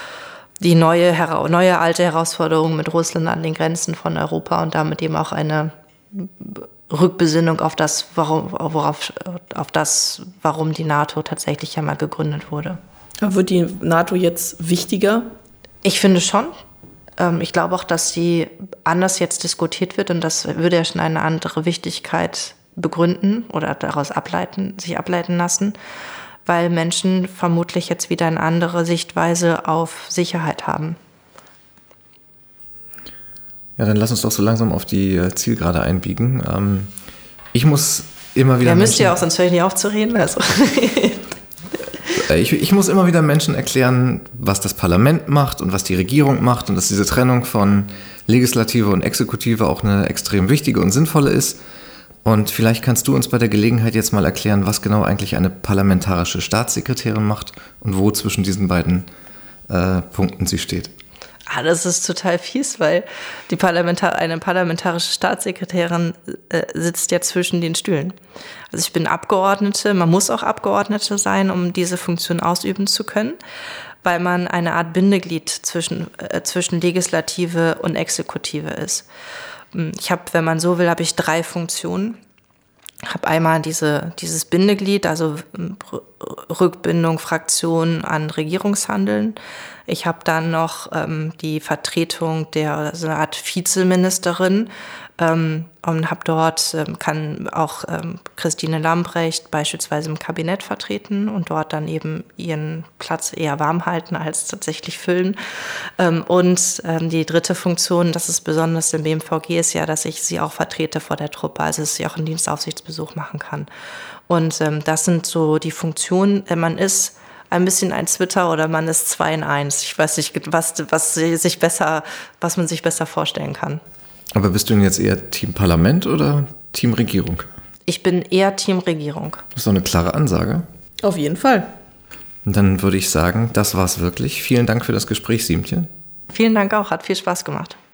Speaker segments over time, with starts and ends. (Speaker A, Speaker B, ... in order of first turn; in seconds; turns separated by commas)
Speaker A: 0.6-12.8, Speaker B: 13.2-15.3, Speaker A: 15.8-16.6, Speaker A: 17.2-25.8, Speaker A: 26.5-31.0, Speaker C: 33.8-36.9, Speaker C: 37.5-39.2, Speaker A: 38.6-41.4, Speaker C: 42.2-51.6, Speaker C: 52.2-59.1, Speaker C: 59.7-60.9, Speaker A: 61.5-68.2, Speaker A: 68.7-73.4, Speaker A: 74.0-79.1, Speaker A: 79.7-82.2, Speaker A: 83.1-105.4, Speaker A: 106.0-113.7, Speaker A: 114.3-123.8, Speaker C: 124.3-127.5, Speaker A: 127.9-129.4, Speaker C: 129.6-130.7, Speaker B: 131.0-131.7, Speaker C: 132.4-135.9, Speaker A: 136.3-137.8